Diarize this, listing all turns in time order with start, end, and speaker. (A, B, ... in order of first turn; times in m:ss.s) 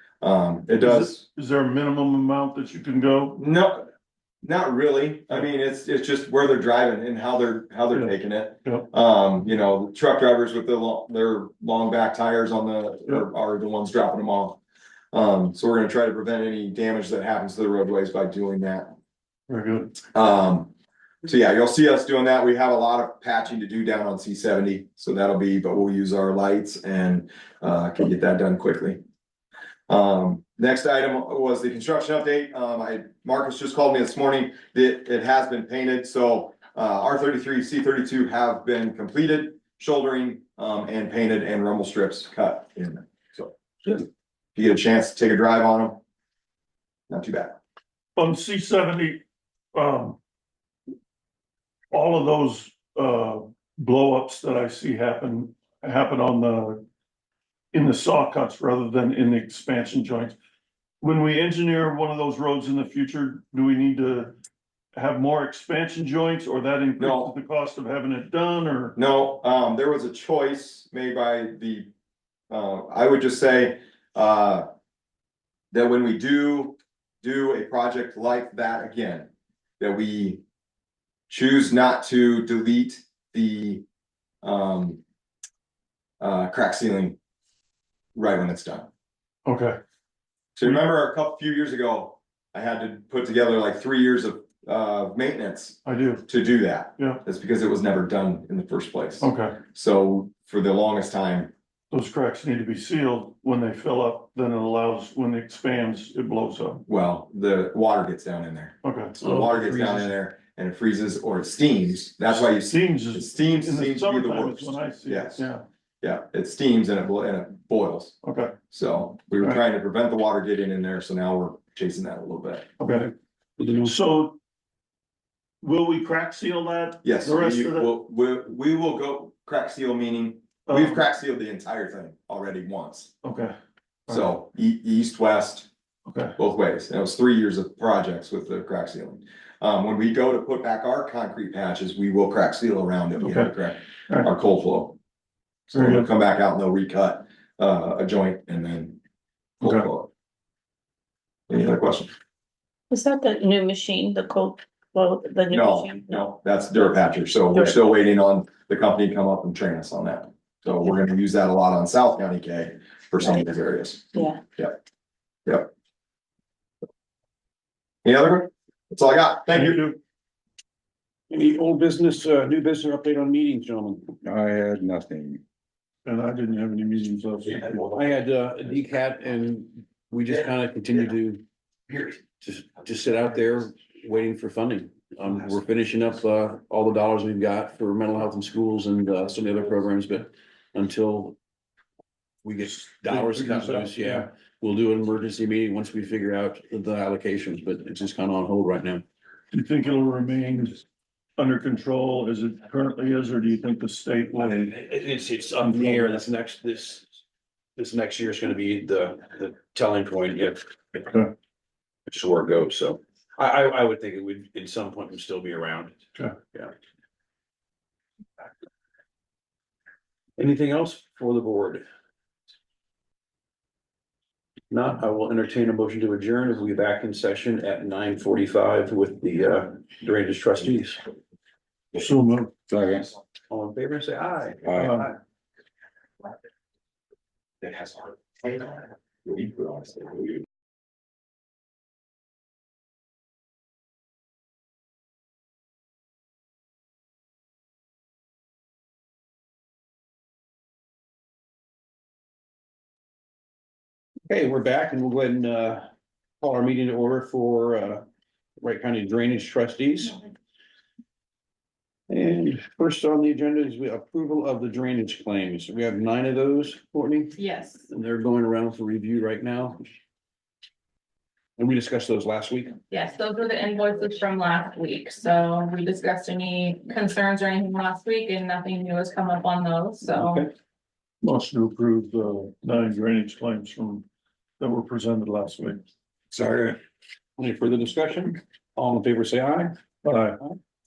0:00.2-0:01.2 A
0:00.8-0:03.4 B
0:03.4-0:03.9 A
0:04.4-0:14.6 A
0:07.9-0:08.9 B
0:15.1-0:18.9 A
0:19.5-0:20.0 B
0:20.1-0:20.7 A
0:21.2-0:29.0 A
0:29.9-0:43.5 A
0:44.5-0:46.0 A
0:47.1-0:47.6 A
0:48.2-0:49.2 B
0:49.7-0:50.2 B
0:51.9-0:56.8 B
0:57.7-1:00.4 B
1:01.0-1:04.3 B
1:04.9-1:09.0 B
1:07.0-1:07.3 A
1:09.0-1:11.9 A
1:12.5-1:14.6 A
1:15.7-1:19.3 A
1:19.8-1:20.4 A
1:21.3-1:23.8 A
1:24.4-1:25.0 A
1:26.2-1:27.2 A
1:28.1-1:28.9 A
1:29.4-1:29.8 B
1:30.6-1:41.5 A
1:30.6-1:30.9 B
1:35.8-1:36.2 B
1:39.2-1:39.6 B
1:41.9-1:46.8 B
1:46.9-1:55.5 A
1:48.8-1:49.1 B
1:49.2-1:50.1 C
1:52.3-1:55.6 B
1:56.0-1:58.1 A
1:58.2-1:58.5 B
1:58.7-2:02.7 A
2:02.8-2:03.1 B
2:03.6-2:03.9 C
2:03.8-2:04.4 B
2:05.6-2:07.9 B
2:07.0-2:13.1 A
2:10.7-2:11.0 B
2:13.2-2:13.5 B
2:14.1-2:15.7 A
2:16.1-2:16.3 B
2:16.4-2:25.0 A
2:23.2-2:23.5 B
2:25.7-2:29.0 A
2:25.7-2:26.1 B
2:29.6-2:29.9 B
2:29.6-2:30.1 A
2:31.5-2:32.1 A
2:32.9-2:36.2 D
2:35.5-2:44.8 A
2:48.0-2:49.8 A
2:49.5-2:50.0 B
2:51.3-2:54.2 C
2:54.2-2:55.4 E
2:56.0-2:58.0 B
2:57.9-3:11.4 C
3:12.4-3:19.0 C
3:13.1-3:14.2 B
3:19.5-3:20.8 B
3:21.4-3:24.6 B
3:24.3-3:27.1 C
3:25.6-3:26.2 B
3:27.8-3:31.0 C
3:31.0-3:31.3 B
3:32.1-3:36.7 C
3:40.4-3:41.8 C
3:44.7-3:51.0 C
3:51.9-3:52.5 B
3:52.7-3:53.2 E
3:53.5-3:55.1 C
3:54.6-3:55.0 E
3:54.8-3:55.1 B
4:14.3-4:15.8 C
4:16.4-4:18.0 C
4:18.6-4:20.2 C
4:22.1-4:27.4 C
4:27.4-4:27.8 F
4:27.9-4:29.8 C
4:31.6-4:32.8 C
4:32.9-4:40.4 F
4:40.1-4:40.5 C
4:41.2-4:44.0 B
4:44.6-4:45.8 B
4:46.3-4:46.8 E
4:47.4-4:49.8 C
4:50.0-4:50.4 B